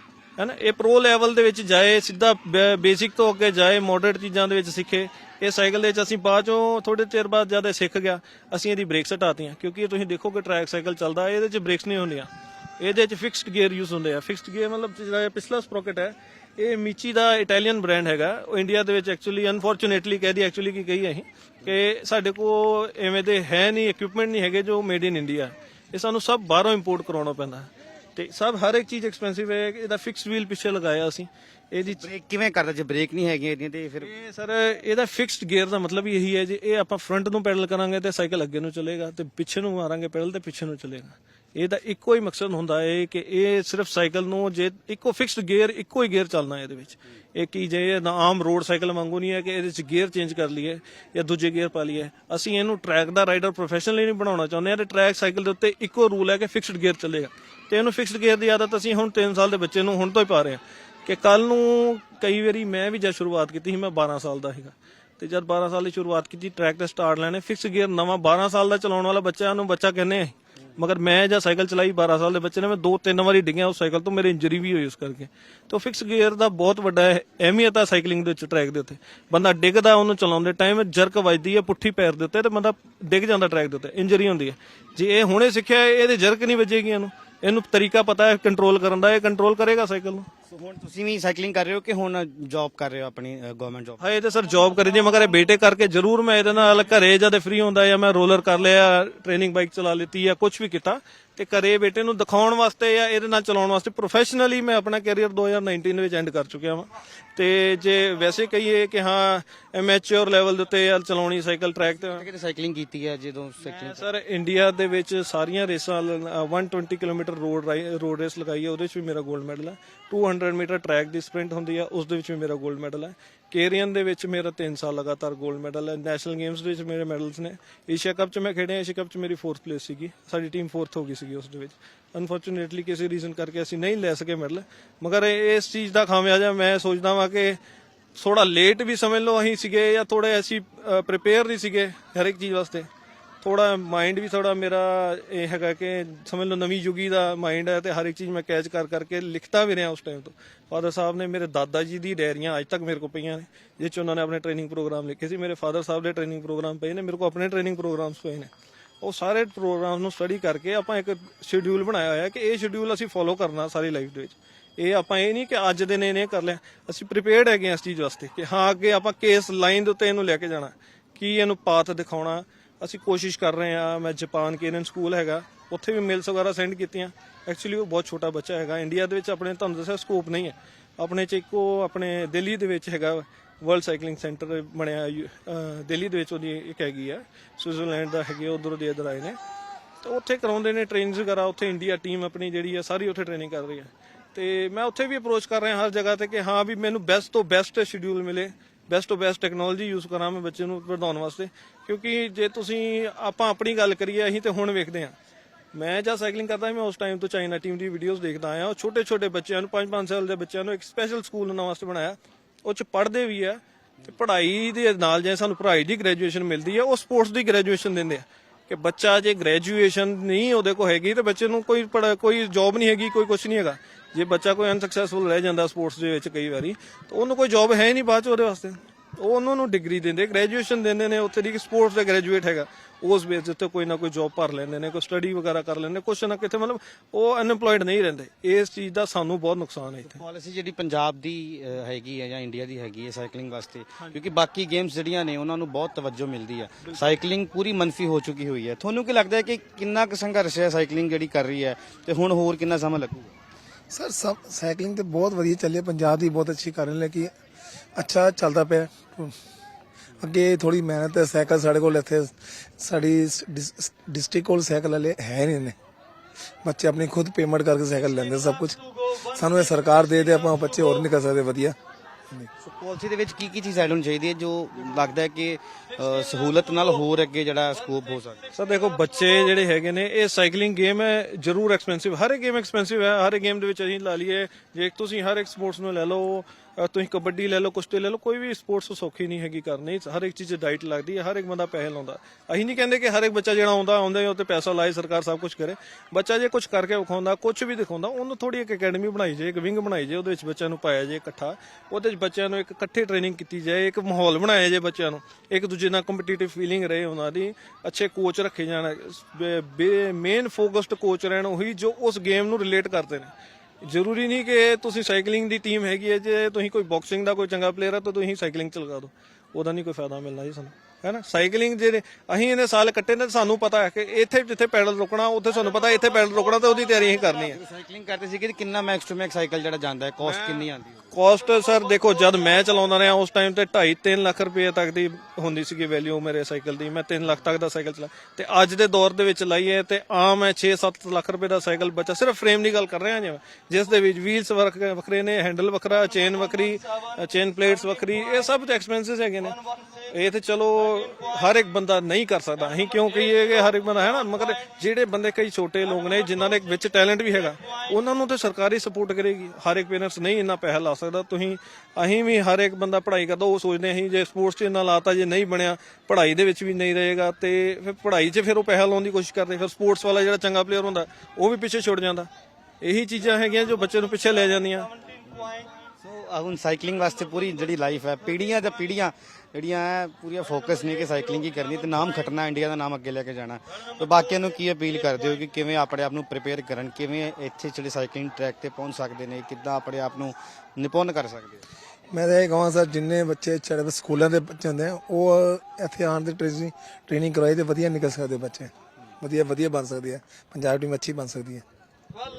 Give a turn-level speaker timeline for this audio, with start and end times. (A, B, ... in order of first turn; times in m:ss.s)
0:00.4-0:32.0 A
0:31.8-0:34.1 B
0:34.0-1:30.3 A
1:30.5-1:34.0 B
1:34.0-1:52.2 A
1:52.0-1:54.0 B
1:53.6-2:17.6 A
2:18.2-2:22.9 A
2:23.4-3:09.4 A
3:10.0-3:25.1 A
3:25.7-4:00.2 A
4:00.0-4:13.3 B
4:13.9-4:17.3 C
4:18.0-4:19.4 C
4:20.2-4:25.8 C
4:26.6-4:31.8 C
4:32.6-4:38.4 B
4:38.5-5:13.3 A
5:13.8-5:27.6 A
5:27.5-5:31.0 B
5:30.2-6:12.3 A
6:12.8-6:14.9 A
6:15.3-6:31.6 B
6:32.1-6:41.6 C